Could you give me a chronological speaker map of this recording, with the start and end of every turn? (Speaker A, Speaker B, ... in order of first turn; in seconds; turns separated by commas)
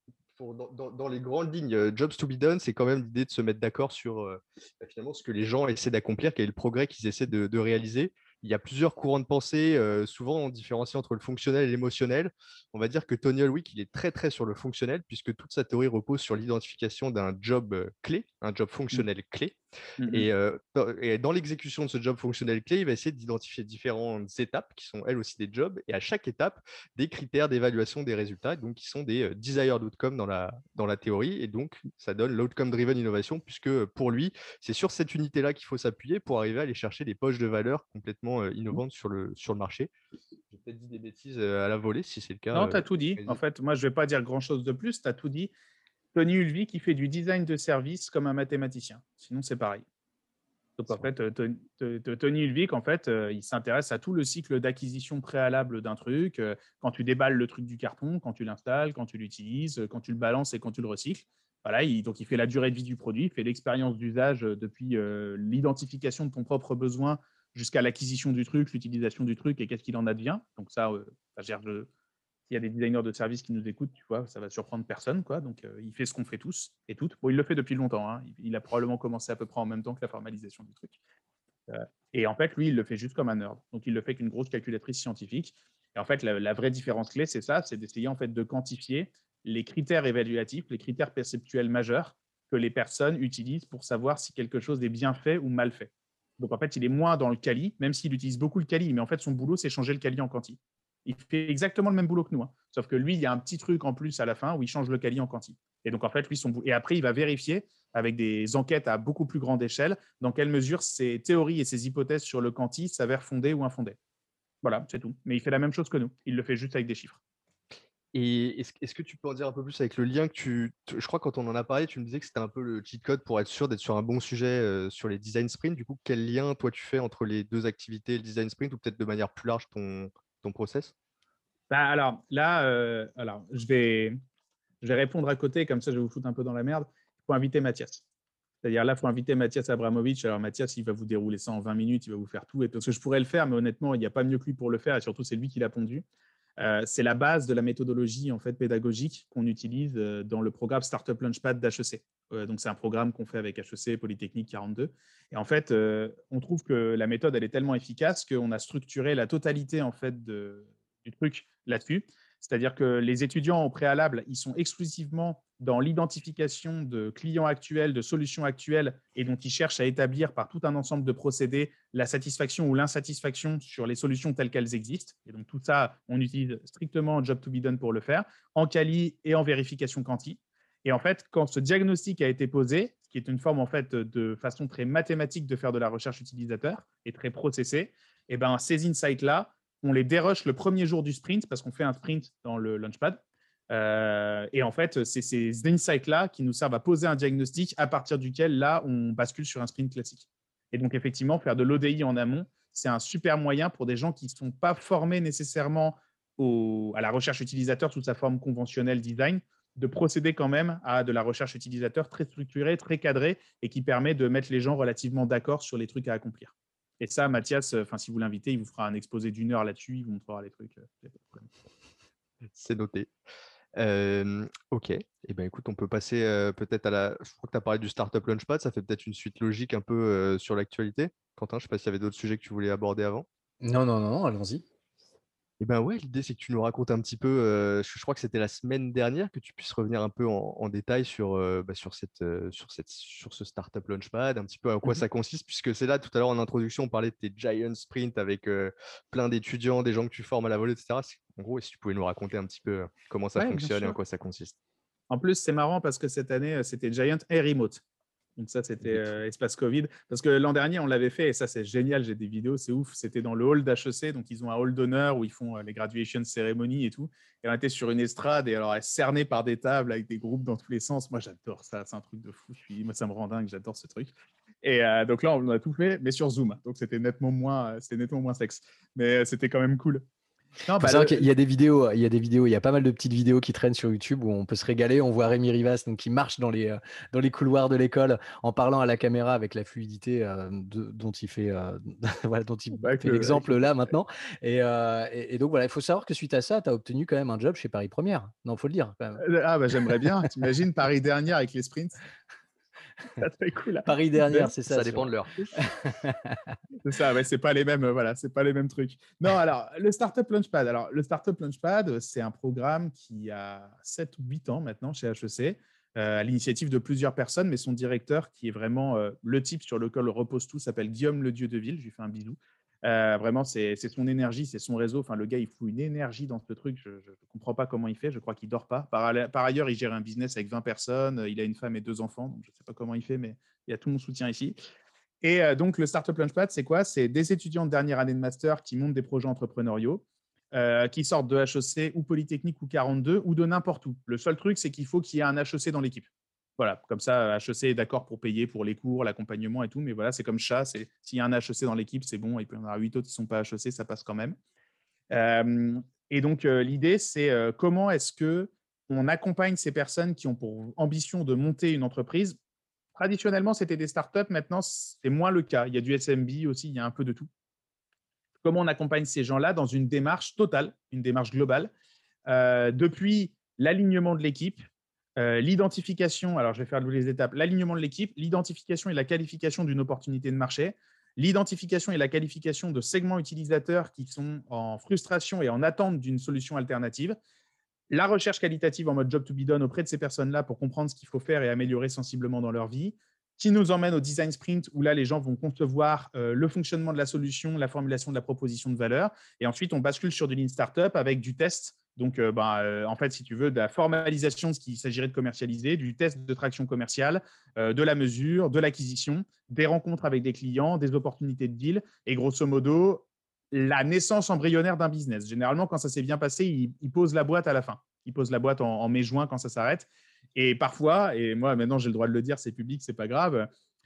Speaker A: 0.3-19.6, Speaker B: 20.0-20.3, Speaker A: 20.1-39.9, Speaker A: 40.5-43.4, Speaker B: 42.5-45.5, Speaker B: 46.1-49.8, Speaker B: 50.8-71.9, Speaker B: 72.5-81.0, Speaker B: 81.7-114.0, Speaker B: 114.6-117.2, Speaker A: 118.1-130.9, Speaker B: 131.7-134.2, Speaker B: 134.8-138.0, Speaker B: 138.6-146.0, Speaker B: 146.6-221.5, Speaker A: 222.5-223.1, Speaker A: 223.8-233.2, Speaker C: 233.6-234.6, Speaker A: 235.6-254.5, Speaker B: 253.4-254.0, Speaker B: 255.1-257.8, Speaker B: 258.4-280.0, Speaker A: 258.8-259.1, Speaker B: 280.6-281.3, Speaker C: 280.8-299.2, Speaker B: 292.7-293.8, Speaker B: 299.2-302.0, Speaker B: 303.1-304.5, Speaker C: 303.9-306.5, Speaker A: 304.7-305.3, Speaker B: 306.8-334.6, Speaker B: 335.2-354.4, Speaker B: 355.1-362.4, Speaker B: 362.9-367.3, Speaker B: 368.4-371.7, Speaker B: 372.3-374.6, Speaker B: 375.2-387.1, Speaker B: 387.9-423.5